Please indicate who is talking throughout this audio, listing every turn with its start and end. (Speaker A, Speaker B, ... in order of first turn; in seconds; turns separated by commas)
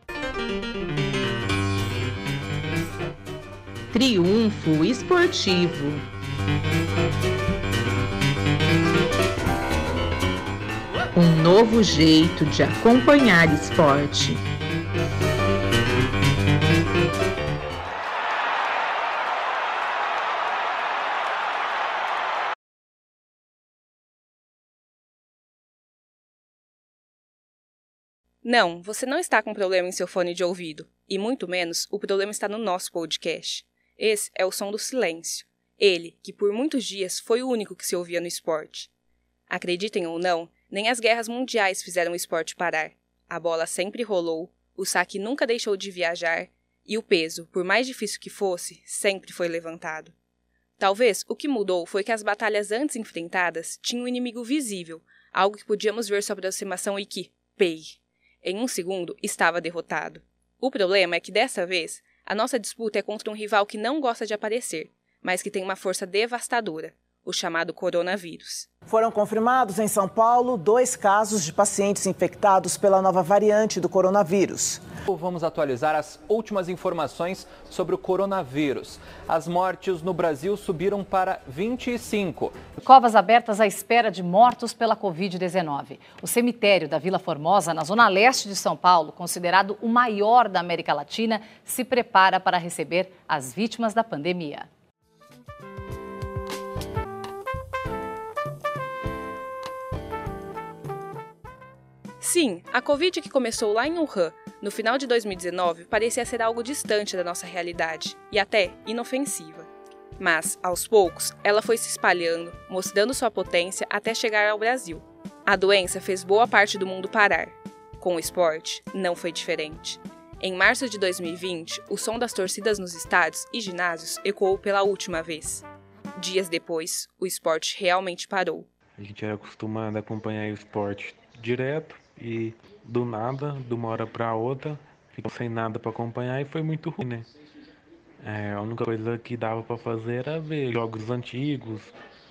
Speaker A: 3.9-6.1, Speaker A: 11.1-14.4, Speaker B: 28.4-38.9, Speaker B: 39.5-50.1, Speaker B: 50.8-68.7, Speaker C: 68.9-74.8, Speaker D: 75.1-82.6, Speaker E: 82.9-94.6, Speaker B: 102.2-128.7, Speaker F: 129.0-137.3, Speaker F: 138.2-141.9